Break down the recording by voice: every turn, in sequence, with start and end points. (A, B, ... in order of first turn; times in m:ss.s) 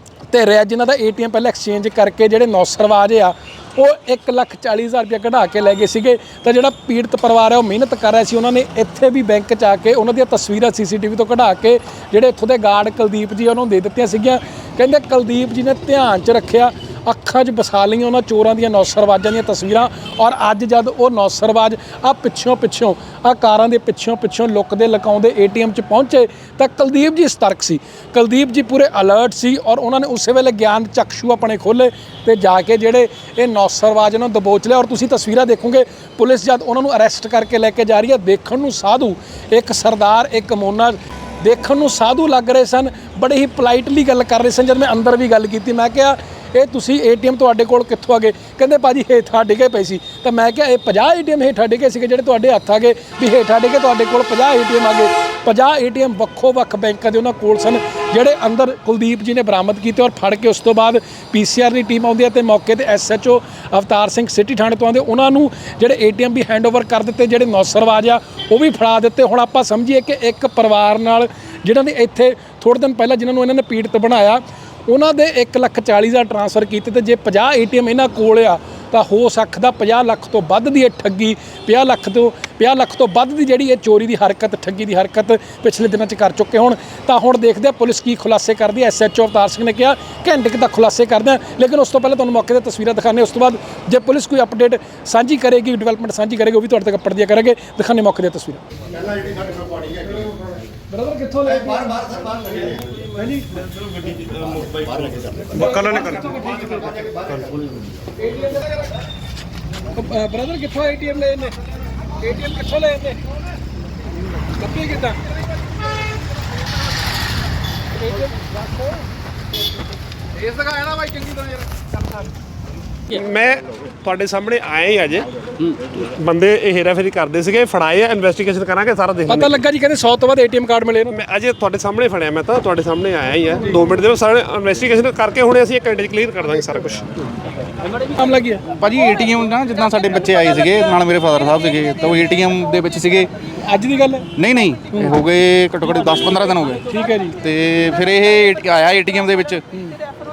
0:00.3-1:38.6 A
1:38.9-1:40.5 B
1:40.9-1:42.0 A
1:41.5-1:42.8 B
1:42.9-1:43.6 A
1:44.1-1:46.0 B
1:45.5-1:46.9 A
1:46.7-1:47.7 B
1:48.2-1:48.7 A
1:49.9-1:51.5 A
1:52.2-1:53.2 A
1:54.6-1:55.2 A
2:03.2-2:05.3 C
2:06.2-2:09.5 C
2:09.3-2:11.2 A
2:11.1-2:17.0 C
2:18.2-2:18.6 A
2:18.7-2:23.3 D
2:23.6-2:24.3 A
2:24.4-2:26.8 D
2:26.9-2:27.4 A
2:27.4-2:29.6 D